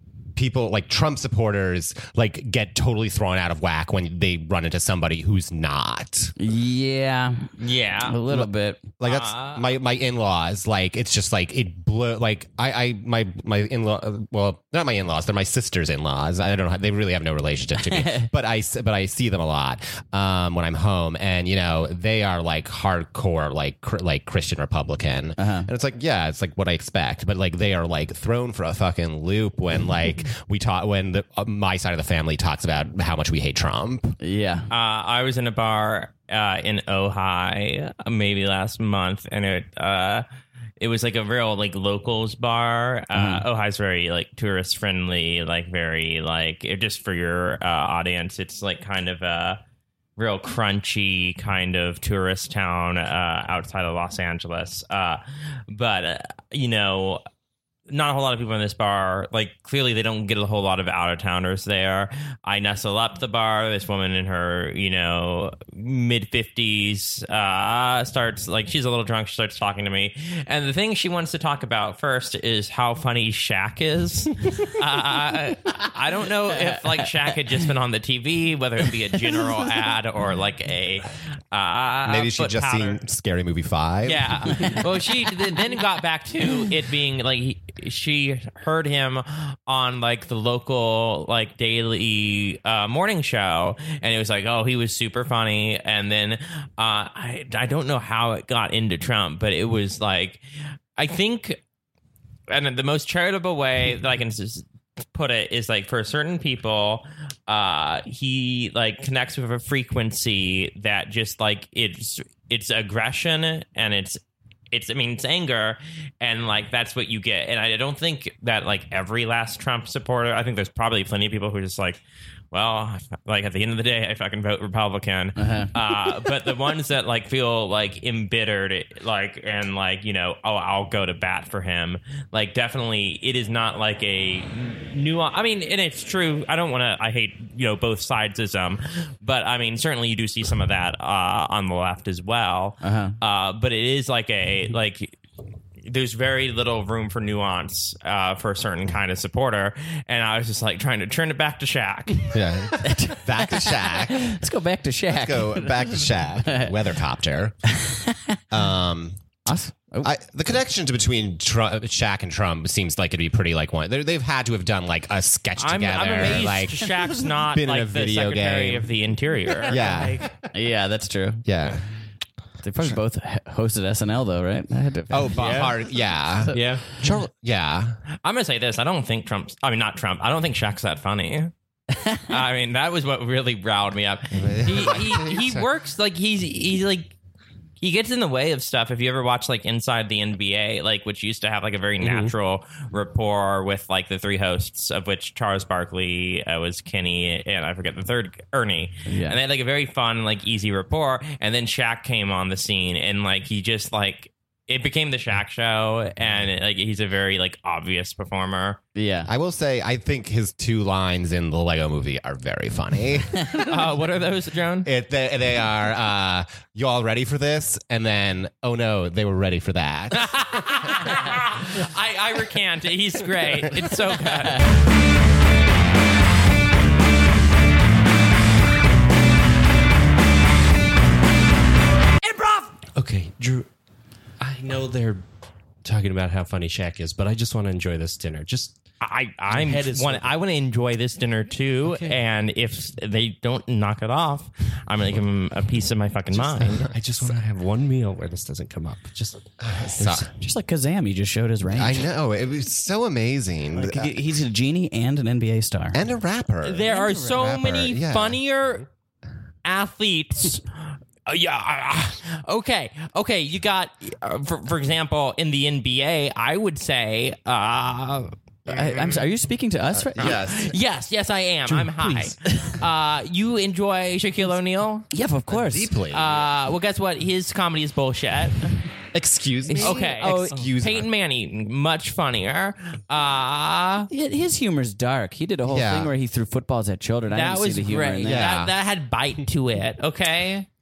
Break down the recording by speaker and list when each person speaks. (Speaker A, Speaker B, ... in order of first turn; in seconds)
Speaker A: 0.3-6.3, 9.0-34.2, 82.0-84.8, 152.3-154.4, 155.1-157.7, 158.5-159.2, 160.0-168.9, 169.7-170.2, 171.4-171.8, 175.1-178.0, 184.3-185.7, 209.2-213.5, 214.8-221.0, 246.6-247.3, 249.6-250.3, 251.7-254.2, 255.9-258.4, 269.9-270.7, 275.5-276.5, 279.1-281.1, 285.6-286.1, 288.2-288.7
Speaker B: 6.4-8.8, 17.8-18.3, 25.4-25.7, 34.2-34.7, 43.1-43.4, 76.5-77.1, 125.3-125.7, 142.8-143.2, 152.8-156.7, 157.7-158.4, 159.4-160.1, 170.5-171.4, 172.6-175.7, 181.9-182.2, 199.1-199.4, 208.9-209.3, 224.3-224.6, 250.3-252.1, 253.7-256.0, 256.9-257.4, 268.7-270.4, 275.1-275.9, 279.8-280.6, 284.1-288.5
Speaker C: 7.6-8.2, 9.0-9.7, 34.7-40.2, 40.8-49.6, 50.2-57.2, 57.9-83.0, 84.0-100.4, 101.0-101.6, 102.5-114.2, 114.7-122.0, 122.5-145.2, 145.8-152.4, 165.6-170.2, 178.2-181.5, 182.3-187.1, 187.8-208.8, 213.6-214.9, 220.1-224.8, 232.3-232.6, 239.0-246.8, 256.6-258.9, 259.6-269.2, 270.2-275.1, 276.1-278.7, 279.7-284.1, 287.3-290.7
Speaker D: 175.4-175.8, 176.5-177.0, 192.0-192.3, 232.9-233.7, 234.4-235.2, 235.8-238.8, 239.5-240.3, 241.8-242.2, 246.3-250.2, 271.7-272.4